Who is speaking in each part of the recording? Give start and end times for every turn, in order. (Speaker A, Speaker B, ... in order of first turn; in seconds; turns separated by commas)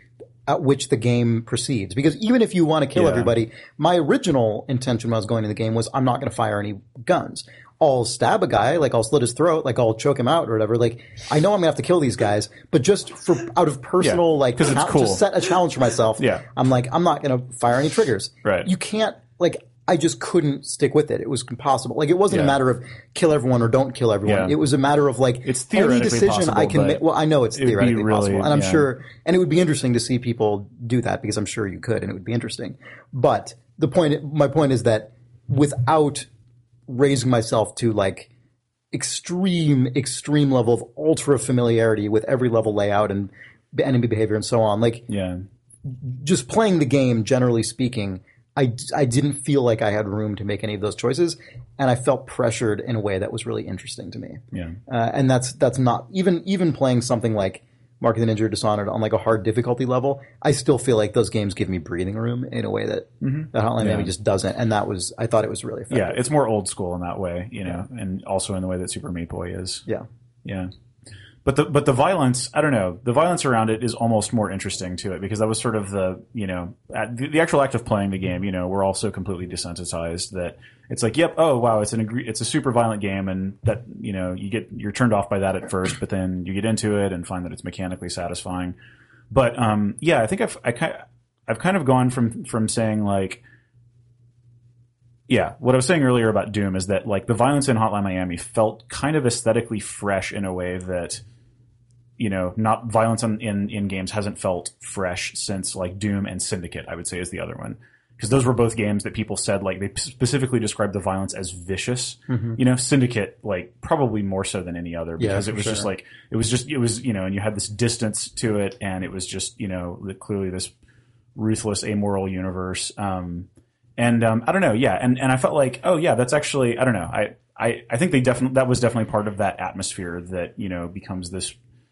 Speaker A: 0.5-36.3, Speaker B: 2.9-3.3, Speaker B: 14.0-15.2, Speaker B: 16.2-16.4, Speaker B: 18.4-18.7, Speaker B: 22.3-22.6, Speaker B: 24.2-24.5, Speaker B: 25.4-27.0, Speaker B: 27.5-28.8, Speaker A: 36.9-38.3, Speaker A: 38.9-45.1, Speaker B: 45.1-45.4, Speaker A: 45.9-66.2, Speaker B: 63.2-64.1, Speaker B: 65.9-69.8, Speaker B: 70.4-70.7, Speaker B: 71.4-88.7, Speaker B: 89.3-93.4, Speaker B: 95.3-101.2, Speaker B: 102.2-120.7, Speaker A: 112.3-112.6, Speaker A: 115.2-115.9, Speaker B: 121.3-131.6